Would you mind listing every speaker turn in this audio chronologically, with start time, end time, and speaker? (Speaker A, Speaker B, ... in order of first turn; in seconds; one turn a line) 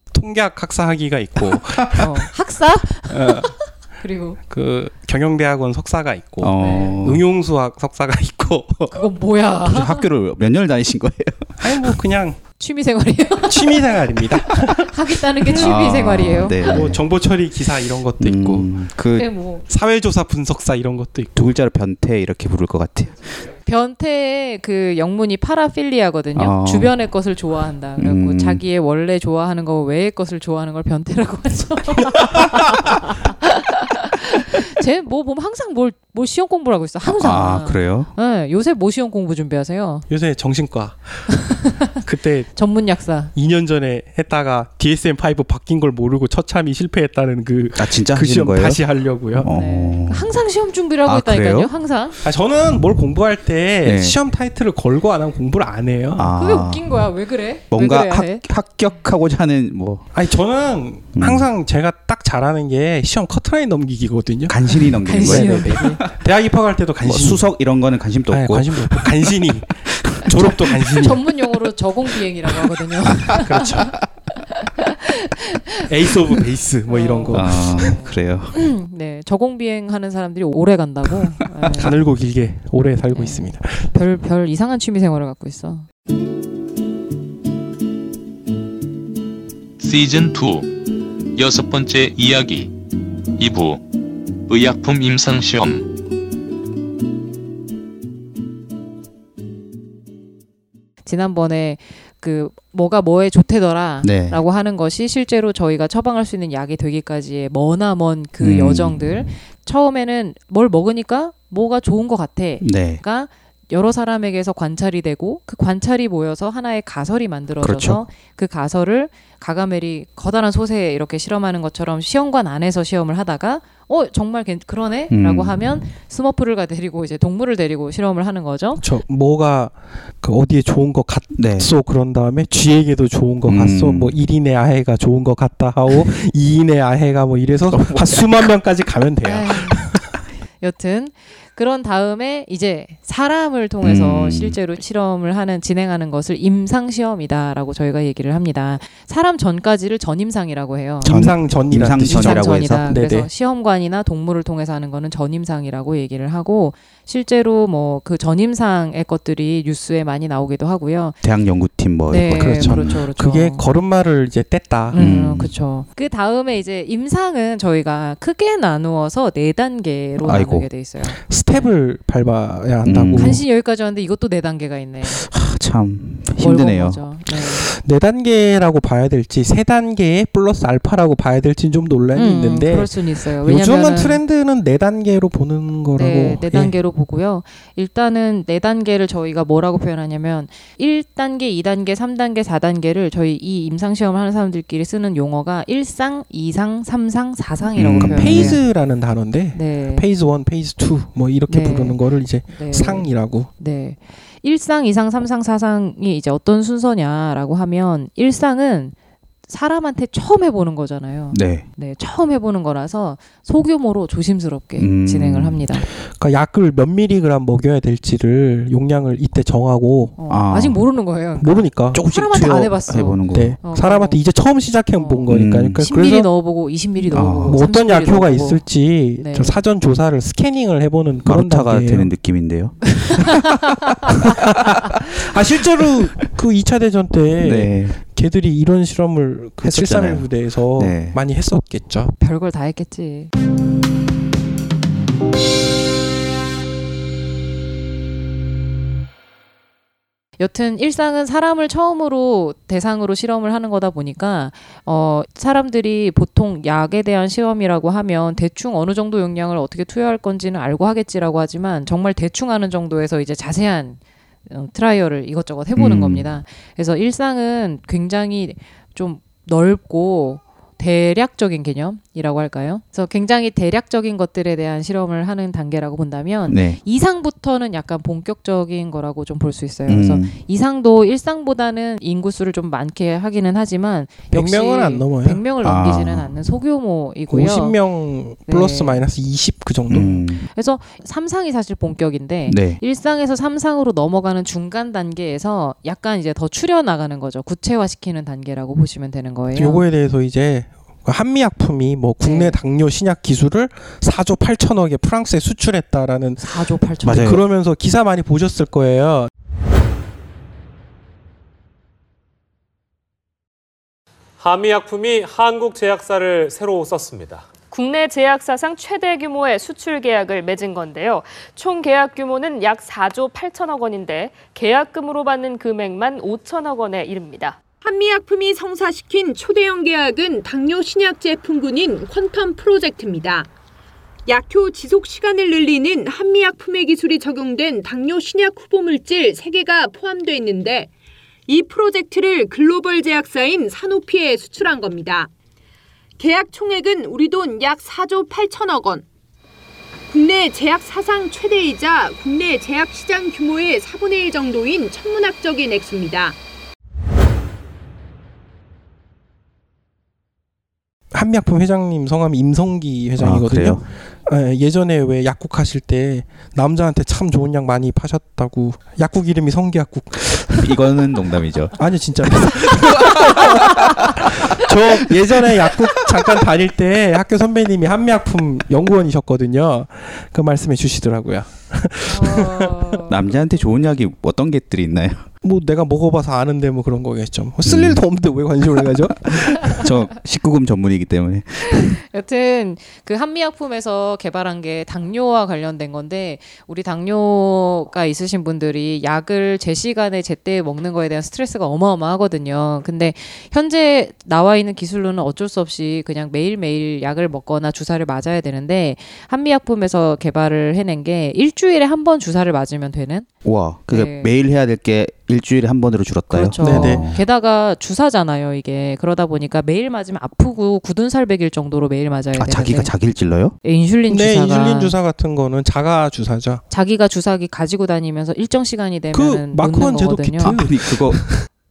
Speaker A: 0.1-2.3
Speaker B: 1.9-4.4
Speaker A: 3.1-3.5
Speaker A: 4.5-9.0
Speaker C: 6.4-7.2
Speaker B: 6.6-7.0
Speaker B: 8.9-10.1
Speaker C: 9.6-11.8
Speaker A: 11.6-12.4
Speaker B: 12.6-13.9
Speaker A: 13.5-15.7
Speaker B: 14.6-16.9
Speaker C: 15.5-17.0
Speaker A: 16.6-18.7
Speaker C: 18.2-19.3
Speaker B: 19.1-19.6
Speaker A: 19.6-21.5
Speaker C: 21.4-23.5
Speaker B: 23.6-40.0
Speaker C: 26.4-26.9
Speaker C: 28.0-28.6
Speaker C: 37.0-38.1
Speaker A: 40.1-42.5
Speaker B: 41.5-41.9
Speaker B: 42.5-43.3
Speaker A: 43.3-49.5
Speaker C: 47.7-48.8
Speaker C: 49.3-50.3
Speaker B: 49.5-52.2
Speaker C: 51.0-51.7
Speaker A: 52.2-56.3
Speaker C: 53.8-54.2
Speaker C: 56.1-57.0
Speaker B: 56.3-58.4
Speaker C: 57.7-60.1
Speaker A: 60.1-64.6
Speaker C: 61.1-61.5
Speaker C: 64.5-66.1
Speaker B: 65.0-66.0
Speaker A: 65.1-67.5
Speaker C: 67.0-69.2
Speaker A: 68.3-71.2
Speaker C: 69.9-70.9
Speaker B: 70.9-75.8
Speaker A: 73.3-74.0
Speaker A: 75.8-77.9
Speaker B: 76.9-81.9
Speaker C: 77.3-78.5
Speaker A: 81.7-83.9
Speaker B: 83.1-85.8
Speaker D: 89.8-90.8
Speaker D: 91.3-92.7
Speaker D: 93.4-93.8
Speaker D: 94.5-95.9
Speaker B: 101.0-128.8
Speaker C: 104.0-104.4
Speaker C: 108.4-109.1
Speaker C: 112.6-113.0
Speaker C: 117.6-118.0
Speaker C: 125.1-125.6
Speaker A: 128.8-140.1
Speaker C: 131.4-131.7
Speaker C: 133.4-134.1
Speaker C: 137.7-138.3
Speaker B: 139.2-139.8
Speaker B: 140.6-151.3
Speaker C: 143.8-144.6
Speaker C: 151.0-152.9
Speaker A: 151.0-153.3
Speaker B: 152.0-161.2
Speaker C: 161.2-162.9
Speaker B: 162.1-163.6
Speaker A: 162.3-165.0
Speaker B: 164.9-171.7
Speaker C: 164.9-165.5
Speaker C: 170.2-170.7
Speaker A: 171.1-173.4
Speaker C: 172.8-173.3
Speaker B: 173.2-175.2
Speaker C: 175.0-177.0
Speaker B: 176.4-177.7
Speaker A: 177.4-186.8
Speaker B: 182.1-184.2
Speaker B: 185.9-198.6
Speaker C: 197.8-198.6
Speaker A: 197.9-203.5
Speaker B: 199.5-200.0
Speaker B: 201.5-208.9
Speaker B: 209.5-215.9
Speaker C: 211.3-211.7
Speaker C: 214.8-215.7
Speaker A: 216.0-220.2
Speaker B: 220.2-224.2
Speaker C: 220.3-220.8
Speaker A: 221.4-222.0
Speaker C: 221.9-223.6
Speaker A: 223.3-226.3
Speaker B: 224.9-228.6
Speaker C: 225.3-225.8
Speaker A: 227.0-232.1
Speaker C: 227.1-227.6
Speaker B: 229.2-229.6
Speaker C: 231.2-233.4
Speaker B: 233.1-233.5
Speaker A: 234.2-242.1
Speaker C: 237.4-238.0
Speaker C: 239.6-241.2
Speaker B: 242.2-243.3
Speaker B: 250.4-287.8
Speaker C: 265.8-266.3
Speaker C: 276.5-276.8
Speaker C: 279.9-280.4
Speaker A: 284.3-285.4
Speaker C: 285.6-286.3
Speaker A: 287.3-290.1
Speaker B: 288.5-289.0
Speaker C: 289.9-290.4
Speaker B: 289.9-299.9
Speaker C: 292.5-292.8
Speaker A: 299.5-309.3
Speaker B: 302.2-302.6
Speaker B: 306.4-307.4
Speaker C: 307.0-307.4
Speaker E: 314.4-317.5
Speaker F: 317.7-327.6
Speaker G: 327.8-333.5
Speaker G: 334.3-340.9
Speaker G: 341.5-345.3
Speaker G: 346.2-349.1
Speaker G: 350.1-356.4
Speaker A: 361.1-370.8
Speaker C: 363.2-363.8
Speaker C: 370.6-371.8
Speaker A: 371.8-382.9
Speaker C: 372.3-374.4
Speaker C: 375.6-376.3
Speaker B: 382.1-383.1
Speaker C: 383.1-385.3
Speaker A: 385.4-389.9
Speaker C: 387.6-388.0
Speaker C: 389.2-392.0
Speaker B: 391.6-413.2
Speaker C: 413.4-417.2
Speaker B: 413.9-414.3
Speaker B: 416.3-422.9
Speaker A: 416.6-417.0
Speaker C: 422.4-423.6
Speaker B: 423.6-424.9
Speaker A: 424.1-426.6
Speaker B: 426.7-430.6
Speaker A: 429.1-431.4
Speaker C: 430.5-431.2